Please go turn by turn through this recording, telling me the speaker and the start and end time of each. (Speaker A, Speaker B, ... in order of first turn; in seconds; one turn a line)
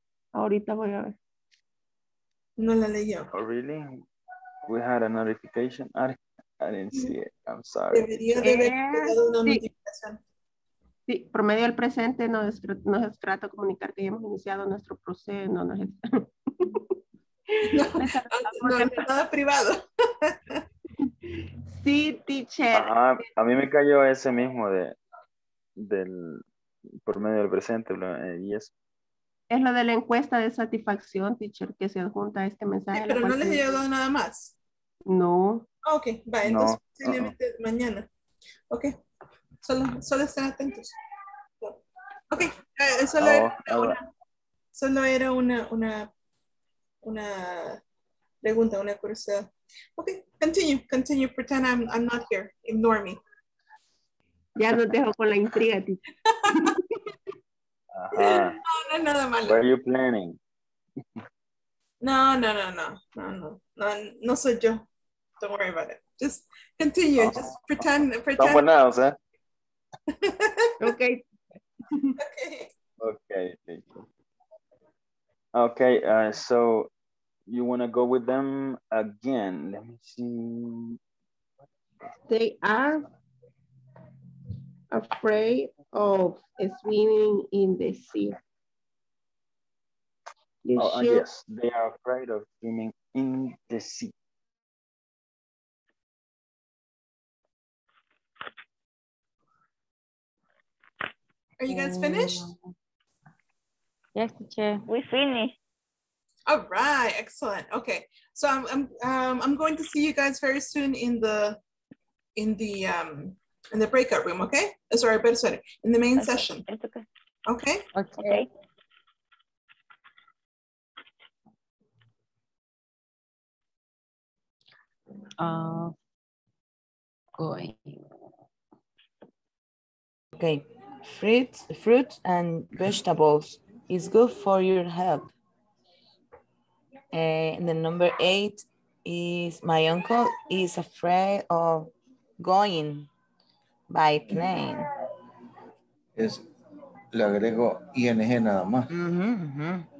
Speaker A: 0.3-1.2
Speaker B: 2.6-3.3
Speaker C: 3.3-4.0
Speaker C: 4.7-8.2
Speaker B: 7.9-10.2
Speaker A: 8.4-9.6
Speaker A: 11.1-16.9
Speaker B: 17.6-20.6
Speaker A: 17.6-19.0
Speaker A: 21.7-23.2
Speaker C: 22.7-25.0
Speaker C: 25.8-26.4
Speaker C: 27.1-28.7
Speaker A: 29.5-33.7
Speaker B: 32.9-34.5
Speaker A: 35.1-35.7
Speaker B: 35.9-38.1
Speaker C: 36.4-37.3
Speaker B: 39.6-41.0
Speaker B: 42.3-44.0
Speaker C: 43.1-44.0
Speaker B: 44.7-46.1
Speaker B: 47.0-47.8
Speaker B: 48.4-53.2
Speaker A: 54.6-56.0
Speaker B: 56.3-56.5
Speaker A: 56.6-56.8
Speaker C: 58.0-58.6
Speaker B: 58.1-59.6
Speaker C: 59.4-60.4
Speaker B: 62.0-64.8
Speaker B: 65.4-68.7
Speaker C: 67.2-67.5
Speaker C: 68.4-69.2
Speaker B: 70.1-70.7
Speaker A: 70.8-71.2
Speaker B: 72.2-72.7
Speaker C: 73.0-73.9
Speaker C: 75.5-76.9
Speaker C: 77.5-81.0
Speaker A: 82.3-83.1
Speaker A: 84.9-88.4
Speaker C: 90.8-94.1
Speaker A: 90.8-91.2
Speaker B: 101.6-102.4
Speaker D: 101.7-102.6
Speaker D: 104.2-104.8
Speaker E: 104.9-105.6
Speaker B: 106.5-111.6
Speaker B: 112.4-116.7
Speaker E: 116.2-117.0
Speaker B: 117.5-117.8
Speaker D: 118.0-118.5
Speaker E: 118.2-118.5
Speaker D: 125.4-125.9
Speaker D: 127.4-128.0
Speaker F: 130.3-135.3
Speaker F: 137.1-143.1
Speaker F: 143.9-144.9
Speaker G: 146.2-146.4
Speaker G: 147.1-148.9
Speaker F: 148.9-149.9